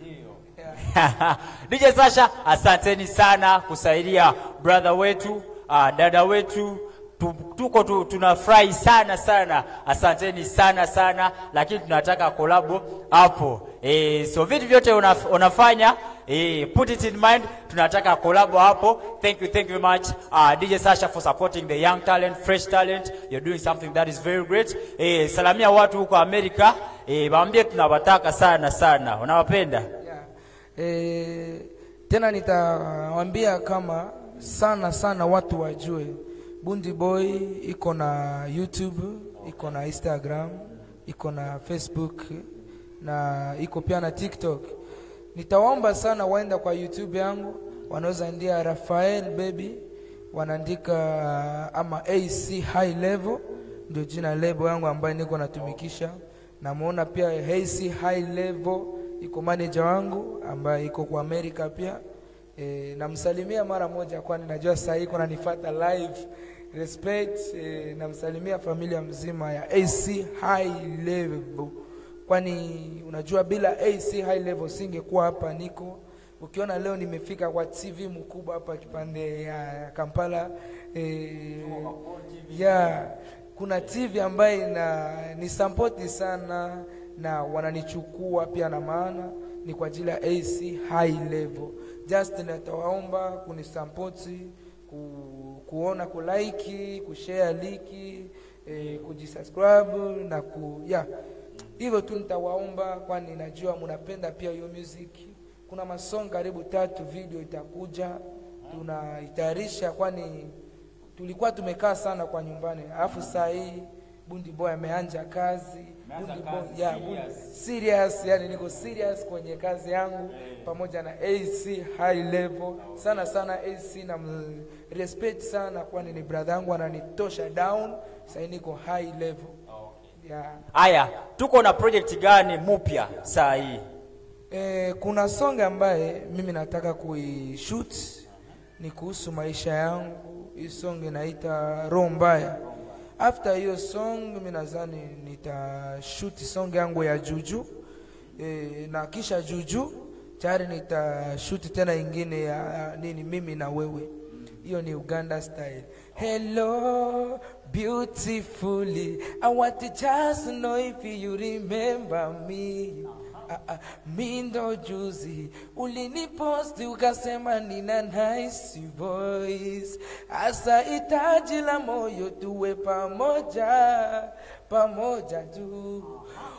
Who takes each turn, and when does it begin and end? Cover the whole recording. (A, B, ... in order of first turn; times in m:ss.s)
0:00.8-0:29.9 A
0:30.0-0:42.4 B
0:43.0-0:44.8 B
0:45.3-0:49.8 B
0:50.3-1:02.0 B
1:02.6-1:22.0 B
1:21.6-1:23.0 A
1:22.5-1:41.1 B
1:41.8-1:50.5 B
1:51.2-2:09.6 B
1:56.1-1:57.4 A
2:10.2-2:10.6 B
2:10.7-2:13.8 A
2:14.5-2:18.2 B
2:18.8-2:22.6 B
2:23.2-2:27.7 B
2:28.4-2:34.1 B
2:34.6-2:56.2 B